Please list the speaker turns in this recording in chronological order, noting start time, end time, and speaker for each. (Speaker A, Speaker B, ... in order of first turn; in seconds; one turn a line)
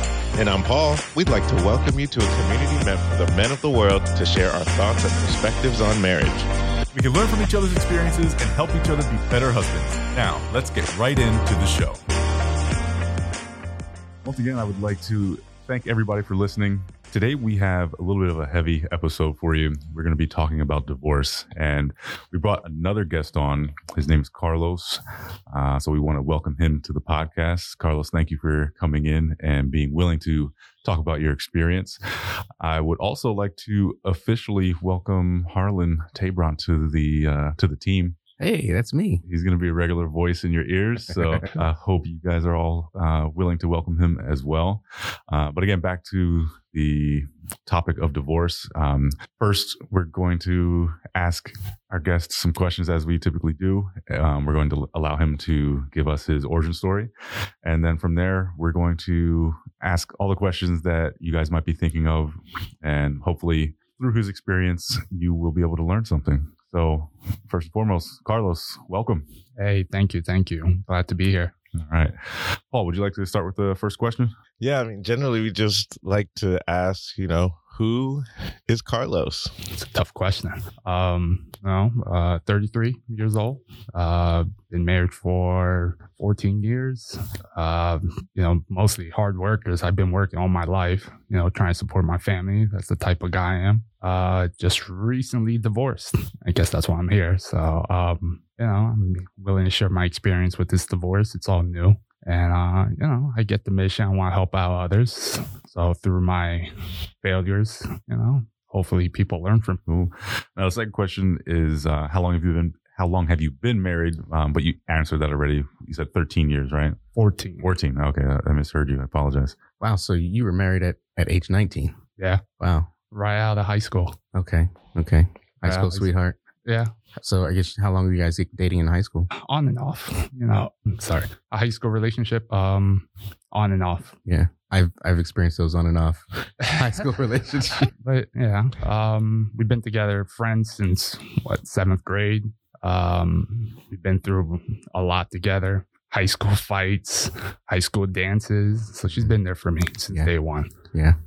Speaker A: 0.3-6.5
Speaker B: 6.9-12.0
Speaker B: 14.2-32.0
Speaker B: 32.6-38.1
Speaker C: 38.4-39.2
Speaker B: 39.2-57.1
Speaker B: 57.6-69.2
Speaker D: 69.6-71.5
Speaker B: 71.8-74.3
Speaker A: 74.6-79.5
Speaker D: 79.7-106.7
Speaker D: 107.2-109.8
Speaker B: 109.9-117.0
Speaker D: 117.2-117.7
Speaker B: 117.6-119.5
Speaker C: 119.8-122.0
Speaker D: 122.2-122.4
Speaker C: 122.6-122.9
Speaker D: 123.1-124.2
Speaker C: 124.3-126.4
Speaker D: 125.6-126.1
Speaker D: 126.6-126.9
Speaker C: 127.2-129.3
Speaker D: 129.3-134.1
Speaker C: 134.2-137.9
Speaker D: 137.8-150.7